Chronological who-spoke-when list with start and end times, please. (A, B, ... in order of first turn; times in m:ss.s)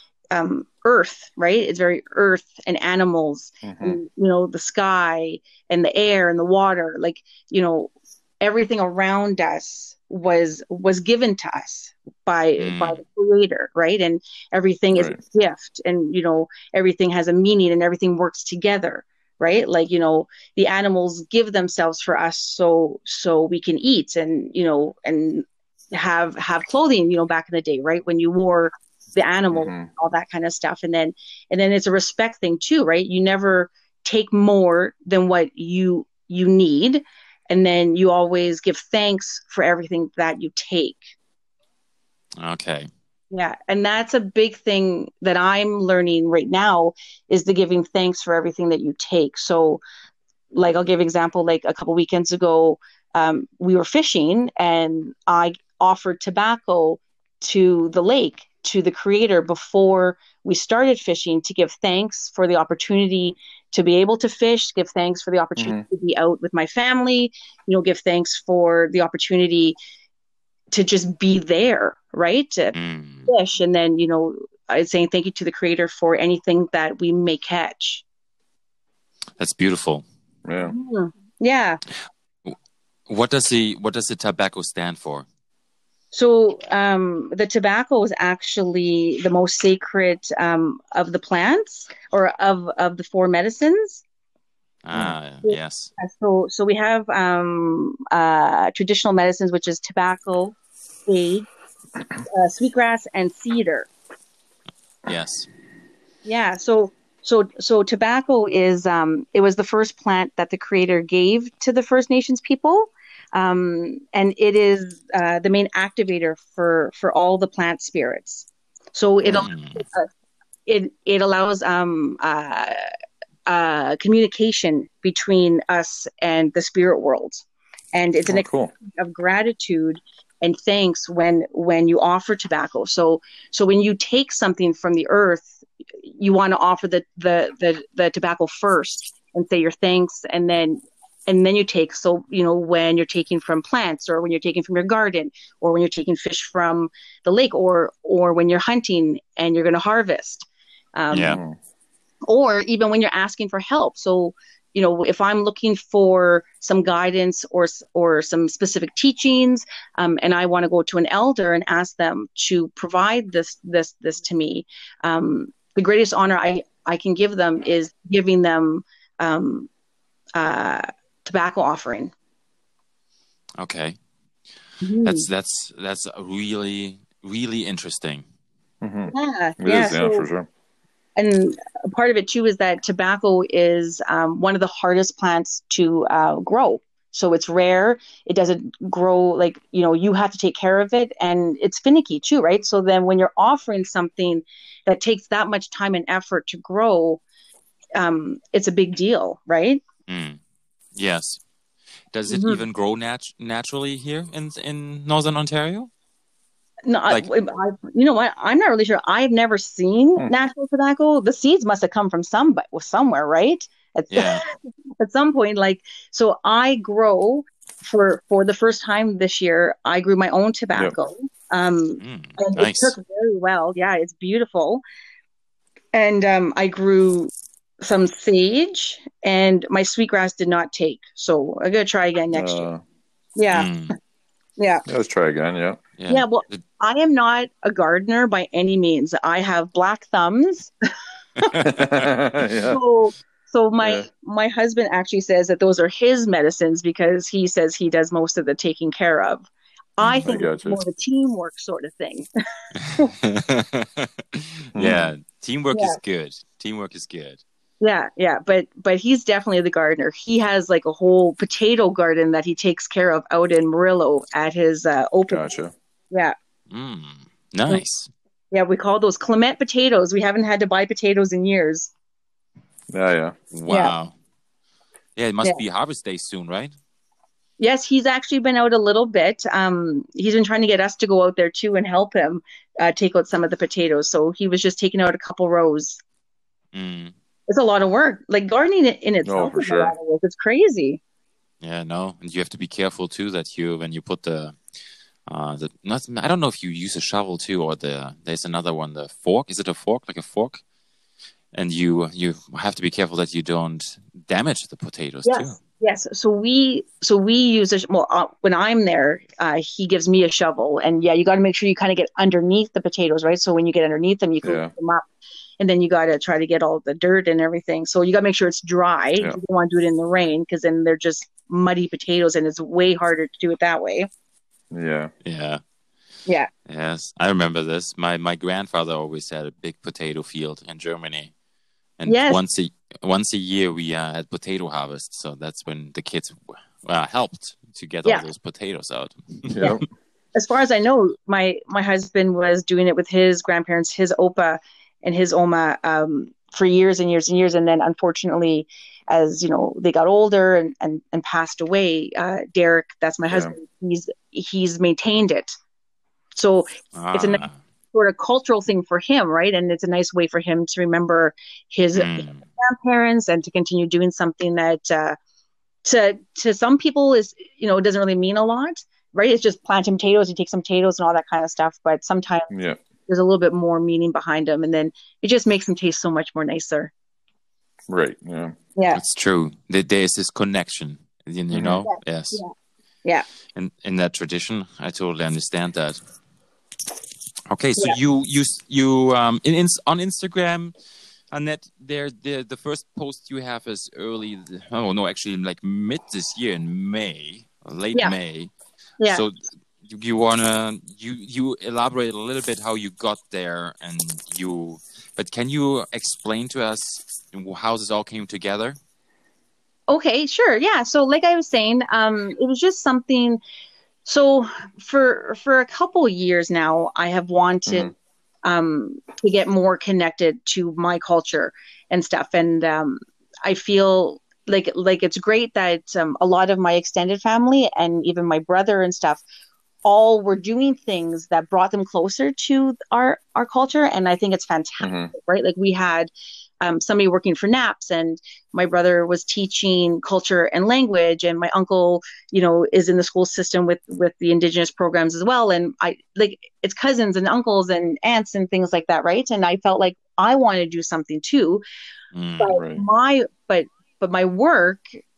0:00.3-0:41.1 A
0:03.6-0:04.0 B
0:12.6-0:13.0 C
0:29.5-0:29.9 B
0:42.4-0:42.9 C
0:43.3-0:49.8 A
0:50.5-1:09.8 A
1:05.6-1:05.8 B
1:10.7-1:12.7 A
1:12.7-1:13.3 C
1:13.3-1:18.0 A
1:19.4-1:20.0 C
1:20.4-1:20.8 B
1:20.6-1:21.8 A
1:23.1-1:25.2 C
1:26.1-1:34.0 A
1:34.8-1:35.9 C
1:35.4-1:41.5 A
1:42.2-1:43.9 A
1:45.0-1:45.5 C
1:46.2-2:00.1 A
1:59.2-1:59.8 C
2:00.6-2:02.9 A
2:03.5-2:31.4 A
2:08.3-2:08.7 B
2:31.1-2:31.4 C
2:32.3-2:49.7 A
2:50.3-2:52.1 A
2:53.6-2:54.0 C
2:54.8-2:55.2 A
2:55.0-2:58.2 C
2:58.8-3:00.5 B
2:59.1-3:00.2 A
3:01.2-3:17.2 A
3:17.9-3:19.8 A
3:20.1-3:20.4 C
3:20.9-3:21.4 C
3:22.1-3:25.9 C
3:22.3-3:22.6 A
3:26.9-3:44.8 A
3:34.1-3:34.4 C
3:42.0-3:43.0 C
3:45.9-3:52.7 A
3:52.3-3:52.8 B
3:53.4-3:53.7 A
3:53.5-3:53.9 C
3:54.6-3:54.8 A
3:54.9-3:55.8 B
3:56.0-3:56.6 C
3:56.1-4:00.7 A
4:01.4-4:01.9 C
4:01.6-4:02.8 B
4:02.7-4:09.5 A
4:03.8-4:04.1 B
4:10.0-4:12.3 A
4:10.0-4:10.8 B
4:12.8-4:17.4 C
4:14.7-4:15.1 B
4:15.7-4:16.0 A
4:17.8-4:25.5 A
4:25.3-4:25.7 B
4:26.7-4:28.1 C
4:28.5-4:31.9 A
4:32.9-4:33.3 B
4:33.5-4:34.1 C
4:33.7-4:33.9 A
4:35.2-4:36.7 C
4:37.6-4:46.0 A
4:46.7-4:47.1 C
4:47.5-4:51.0 A
4:49.2-4:49.9 B
4:51.6-4:54.6 C
4:55.3-5:00.6 C
5:01.5-5:05.6 C
5:05.2-5:15.0 A
5:14.4-5:14.7 B
5:15.6-5:24.1 A
5:24.7-5:25.1 B
5:25.2-5:25.6 C
5:26.6-5:31.3 C
5:32.0-5:39.8 C
5:32.0-5:32.4 A
5:39.5-5:39.8 B
5:40.3-5:55.6 A
5:53.3-5:53.5 B
5:56.3-6:05.2 A
5:56.9-5:57.6 C
6:01.9-6:02.4 C
6:05.8-6:12.5 A
6:12.5-6:12.8 B
6:13.1-6:16.9 A
6:17.9-6:18.6 B
6:18.7-6:19.0 A
6:18.9-6:22.4 C
6:21.5-6:21.8 B
6:21.8-6:22.5 A
6:23.5-6:26.0 C
6:27.5-6:30.7 C
6:31.3-6:38.5 C
6:39.0-6:48.8 C
6:49.9-6:53.4 A
6:54.0-6:57.9 A
6:57.7-6:57.9 B
6:58.4-7:09.2 A
7:09.8-7:16.1 A
7:14.8-7:15.1 B
7:16.6-7:31.6 A
7:32.1-7:32.5 C
7:32.4-7:34.8 A
7:32.5-7:32.8 B